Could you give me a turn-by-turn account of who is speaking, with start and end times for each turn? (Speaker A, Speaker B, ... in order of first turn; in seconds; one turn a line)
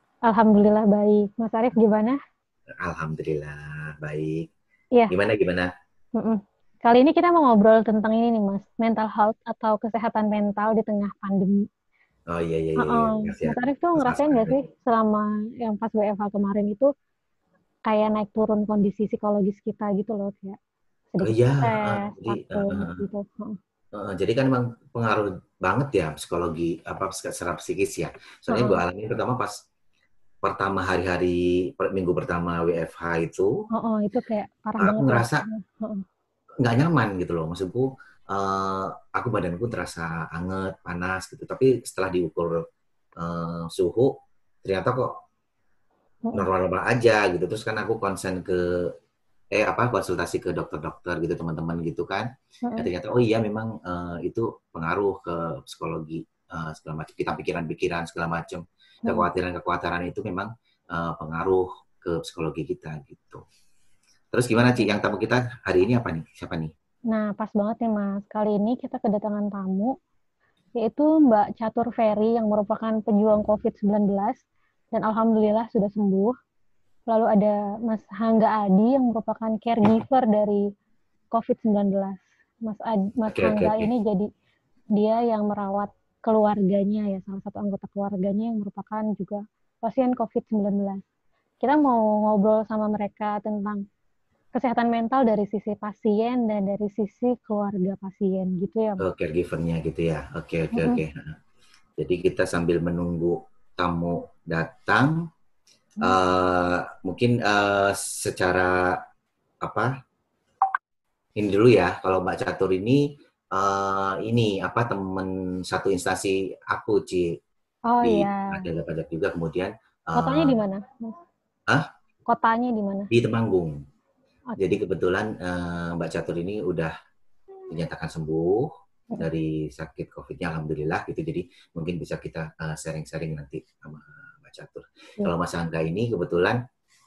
Speaker A: 0.3-2.2
Speaker B: 2.8-4.5
Speaker B: 5.1-5.7
Speaker A: 6.2-11.7
Speaker B: 12.3-14.6
Speaker A: 12.8-16.9
Speaker A: 17.9-20.6
Speaker A: 21.1-23.6
Speaker B: 21.2-23.0
Speaker B: 23.9-29.6
Speaker A: 28.5-28.8
Speaker B: 30.4-33.5
Speaker A: 33.7-36.0
Speaker B: 34.8-35.5
Speaker B: 36.6-42.7
Speaker B: 43.2-45.2
Speaker B: 46.3-48.9
Speaker B: 49.5-63.4
Speaker A: 52.6-52.9
Speaker B: 64.3-66.7
Speaker A: 67.1-70.0
Speaker A: 70.8-74.4
Speaker A: 74.9-76.4
Speaker A: 77.1-80.7
Speaker A: 81.3-84.3
Speaker B: 83.3-83.9
Speaker A: 85.0-91.0
Speaker A: 91.6-93.8
Speaker A: 94.5-99.0
Speaker B: 99.0-101.4
Speaker A: 100.7-101.0
Speaker B: 102.0-105.2
Speaker B: 106.0-109.0
Speaker B: 109.6-109.9
Speaker B: 111.4-117.4
Speaker A: 117.9-118.7
Speaker B: 118.0-120.6
Speaker A: 120.2-121.2
Speaker A: 122.3-123.1
Speaker B: 123.1-123.8
Speaker B: 124.6-126.9
Speaker B: 127.7-136.6